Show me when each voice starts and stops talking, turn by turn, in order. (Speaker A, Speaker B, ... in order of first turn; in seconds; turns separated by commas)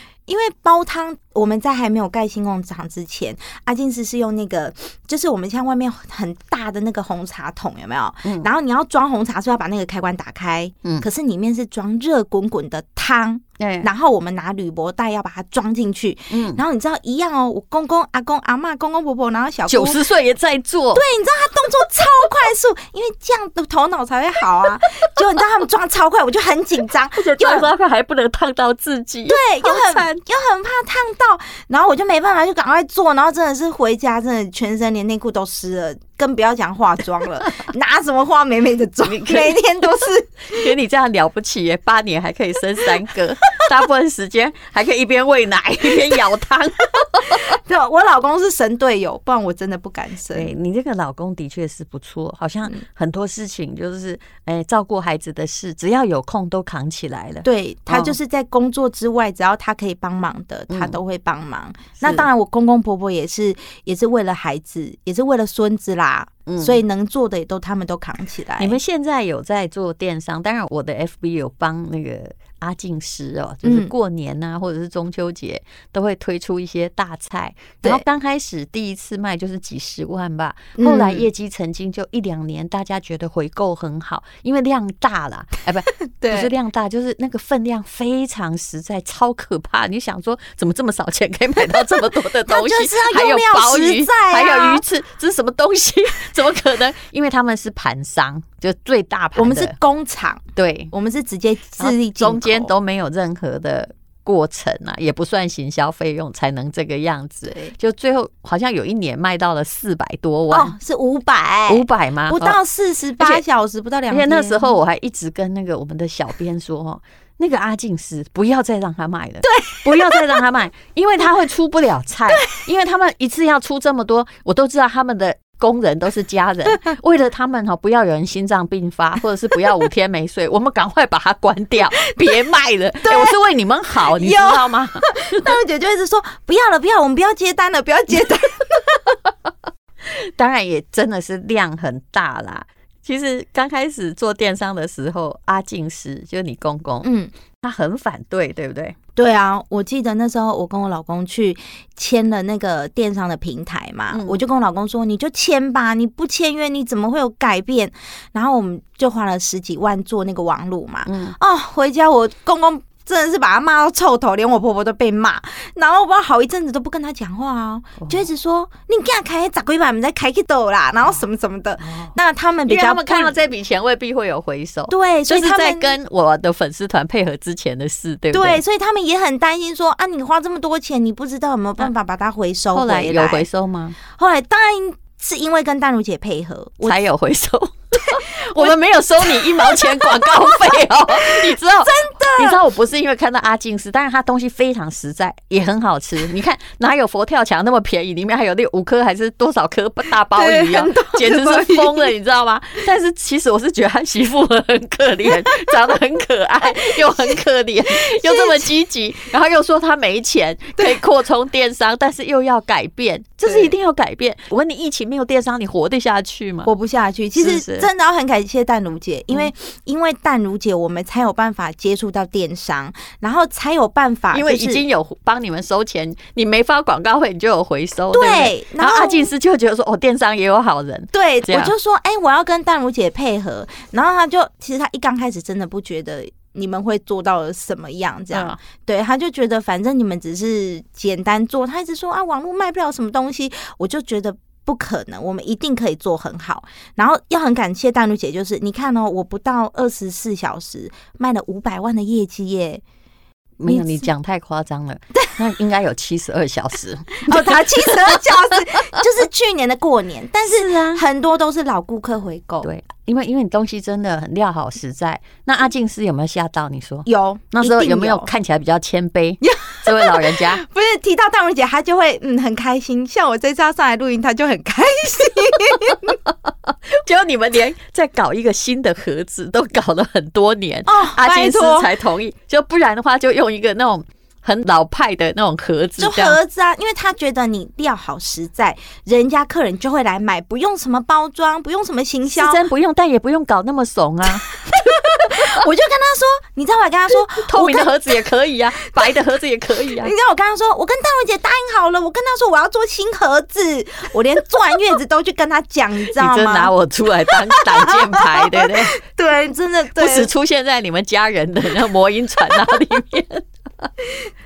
Speaker A: 0.3-20.0, Speaker B: 13.6-13.9, Speaker B: 16.3-16.6, Speaker B: 19.7-21.0, Speaker A: 20.9-27.7, Speaker B: 27.1-30.1, Speaker A: 29.3-40.6, Speaker B: 39.0-39.6, Speaker B: 40.5-47.5, Speaker A: 47.3-50.5, Speaker B: 50.3-58.1, Speaker A: 57.4-68.8, Speaker B: 60.7-61.0, Speaker B: 62.0-62.3, Speaker B: 66.5-66.8, Speaker B: 68.6-99.8, Speaker A: 73.6-73.9, Speaker A: 80.8-81.3, Speaker A: 86.2-86.5, Speaker A: 92.5-94.8, Speaker A: 99.3-102.7, Speaker B: 100.5-100.9, Speaker B: 101.8-110.8, Speaker A: 110.5-114.7, Speaker B: 111.7-112.6, Speaker B: 114.1-135.5, Speaker A: 119.4-120.4, Speaker A: 133.0-133.3, Speaker A: 134.0-139.1, Speaker B: 140.0-147.1, Speaker A: 147.0-147.3, Speaker B: 147.6-149.0, Speaker A: 149.2-173.5, Speaker B: 154.1-154.4, Speaker B: 161.1-161.3, Speaker B: 168.0-168.2, Speaker B: 171.8-172.1, Speaker B: 172.7-178.6, Speaker A: 174.9-176.0, Speaker A: 178.3-183.5, Speaker B: 182.7-184.0, Speaker A: 184.1-187.0, Speaker B: 186.8-216.7, Speaker A: 188.1-192.6, Speaker A: 200.3-202.1, Speaker A: 208.1-208.7, Speaker A: 213.4-213.7, Speaker A: 216.6-224.8, Speaker B: 217.3-217.9, Speaker B: 224.3-231.7, Speaker A: 228.1-229.3, Speaker A: 231.1-252.8, Speaker B: 238.3-238.6, Speaker B: 253.6-258.2, Speaker A: 253.7-254.1, Speaker A: 257.3-262.7, Speaker B: 260.4-261.0, Speaker B: 262.6-270.6, Speaker A: 267.1-268.3, Speaker A: 269.4-276.1, Speaker B: 276.3-286.4, Speaker A: 280.9-281.9, Speaker A: 286.0-292.6, Speaker B: 292.3-294.5, Speaker A: 294.7-298.2, Speaker B: 295.2-295.5, Speaker B: 297.4-300.1, Speaker A: 300.0-306.7, Speaker B: 306.1-309.0, Speaker A: 307.3-310.3, Speaker B: 309.9-313.9